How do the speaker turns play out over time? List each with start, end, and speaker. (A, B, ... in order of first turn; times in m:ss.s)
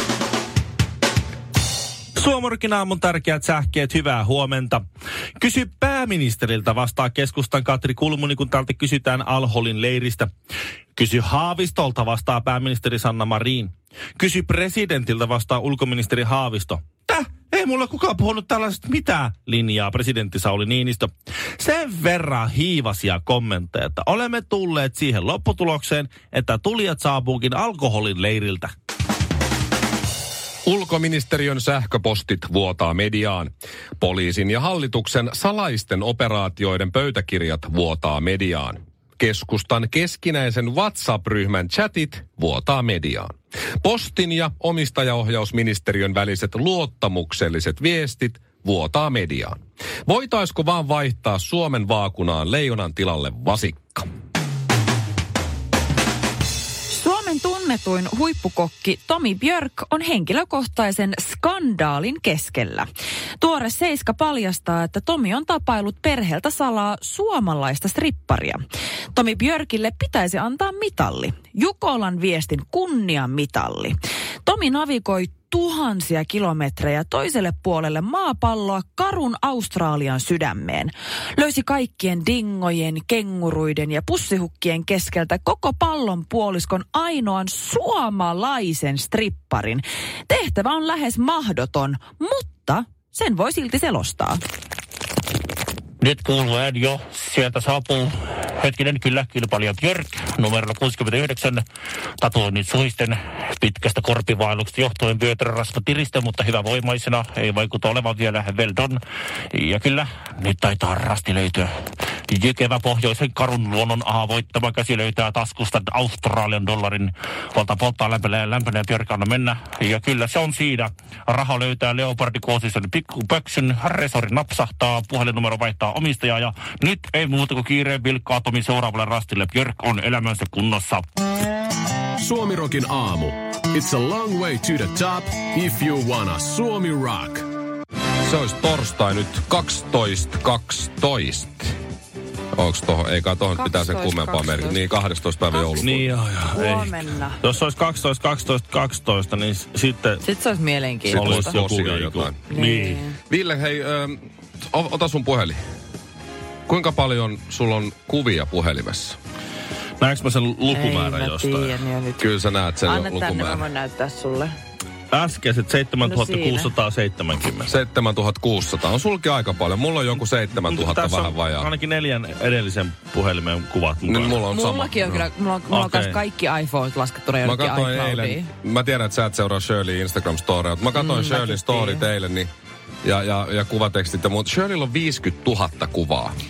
0:02.2-0:04.8 A
0:05.4-0:10.3 A
0:11.0-0:28.7 A
0:30.6-0:54.0 B
0:56.9-1:02.9 C
1:03.4-1:08.6 C
1:09.1-1:34.4 C
1:36.0-1:41.6 D
1:42.2-1:51.7 D
1:52.3-2:11.1 D
2:12.2-2:17.4 E
2:18.2-2:21.7 B
2:22.5-2:26.1 B
2:23.5-2:24.9 C
2:25.5-2:27.4 C
2:25.8-2:30.2 A
2:30.2-2:31.6 C
2:31.1-2:32.4 B
2:31.1-2:33.0 A
2:32.5-2:33.2 C
2:33.3-2:35.6 B
2:36.7-2:39.2 B
2:40.0-2:41.7 A
2:40.7-2:42.3 C
2:42.2-2:43.6 B
2:42.8-2:44.5 C
2:45.1-2:47.7 A
2:46.0-2:46.7 C
2:47.7-2:51.7 B
2:50.5-2:54.4 A
2:54.0-2:55.3 B
2:54.5-2:58.5 C
2:55.7-2:56.2 A
2:57.4-3:02.5 B
3:00.9-3:02.0 C
3:03.0-3:06.3 B